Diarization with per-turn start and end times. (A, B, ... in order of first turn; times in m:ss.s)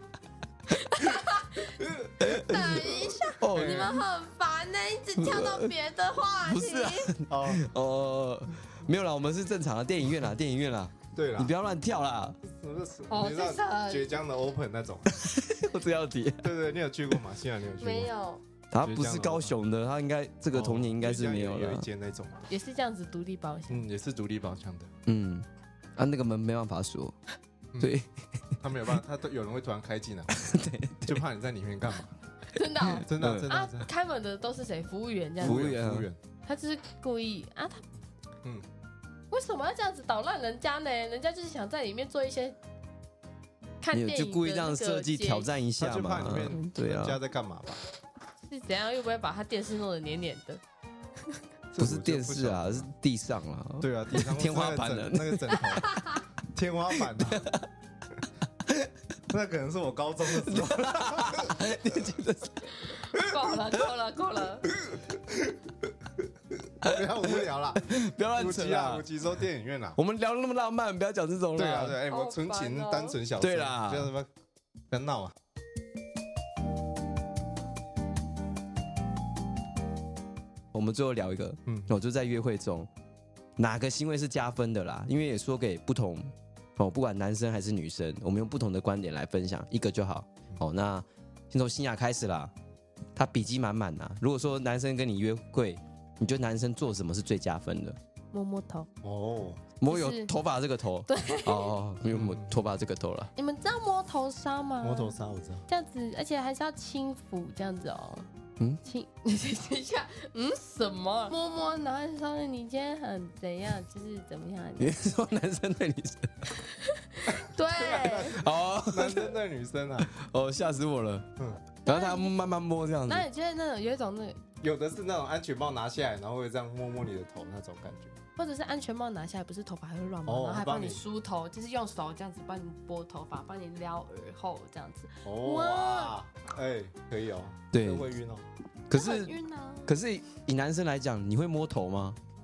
0:00.7-0:07.1 A
0:02.2-0:04.0 B
0:03.5-0:04.0 C
0:05.2-0:05.7 B
0:06.4-0:12.4 B
0:07.3-0:07.6 C
0:11.1-0:11.5 C
0:12.5-0:15.2 C
0:13.1-0:14.1 A
0:15.1-0:16.5 B
0:16.4-0:18.1 C
0:17.8-0:18.4 A
0:18.7-0:21.9 B
0:18.8-0:19.6 C
0:20.5-0:22.4 C
0:22.5-0:23.8 A
0:23.7-0:24.9 C
0:25.0-0:25.4 B
0:26.0-0:27.1 B
0:27.8-0:28.1 B
0:28.6-0:30.4 C
0:30.3-0:31.2 B
0:31.0-0:32.2 C
0:32.4-0:35.7 A
0:32.8-0:33.5 B
0:33.0-0:33.9 C
0:35.4-0:36.2 C
0:35.4-0:36.1 B
0:36.4-0:37.8 A
0:39.3-0:42.6 A
0:43.8-0:45.5 A
0:43.9-0:47.2 B
0:45.8-0:47.8 C
0:48.4-0:50.6 A
0:51.7-0:52.9 C
0:51.8-0:55.8 B
0:53.8-0:55.9 C
0:55.8-0:56.2 A
0:56.5-0:57.5 C
0:57.2-0:57.6 B
0:59.3-1:01.7 C
1:00.3-1:03.6 B
1:02.9-1:04.7 A
1:04.8-1:05.0 B
1:05.2-1:05.6 C
1:06.8-1:10.0 C
1:06.8-1:09.1 B
1:10.0-1:12.0 B
1:11.6-1:14.3 C
1:12.0-1:13.2 A
1:13.4-1:14.1 B
1:14.9-1:15.3 C
1:20.7-1:22.9 B
1:21.7-1:21.9 C
1:23.6-1:32.5 B
1:33.2-1:38.0 B
1:38.3-1:38.9 A
1:39.0-1:39.6 C
1:39.8-1:43.3 B
1:39.9-1:40.3 A
1:41.1-1:41.7 A
1:42.1-1:42.6 C
1:43.4-1:45.1 A
1:44.8-1:45.6 C
1:45.7-1:48.3 A
1:48.8-1:55.0 A
1:54.8-1:56.3 B
1:56.6-1:58.4 A
1:57.3-2:00.1 C
1:58.3-1:59.4 B
2:00.1-2:01.2 B
2:01.8-2:03.3 B
2:01.8-2:02.4 A
2:03.1-2:04.4 A
2:04.6-2:08.2 C
2:08.4-2:16.1 A
2:10.2-2:11.0 C
2:15.2-2:18.4 C
2:17.7-2:18.1 B
2:18.9-2:19.3 B
2:18.9-2:20.0 A
2:19.8-2:22.2 B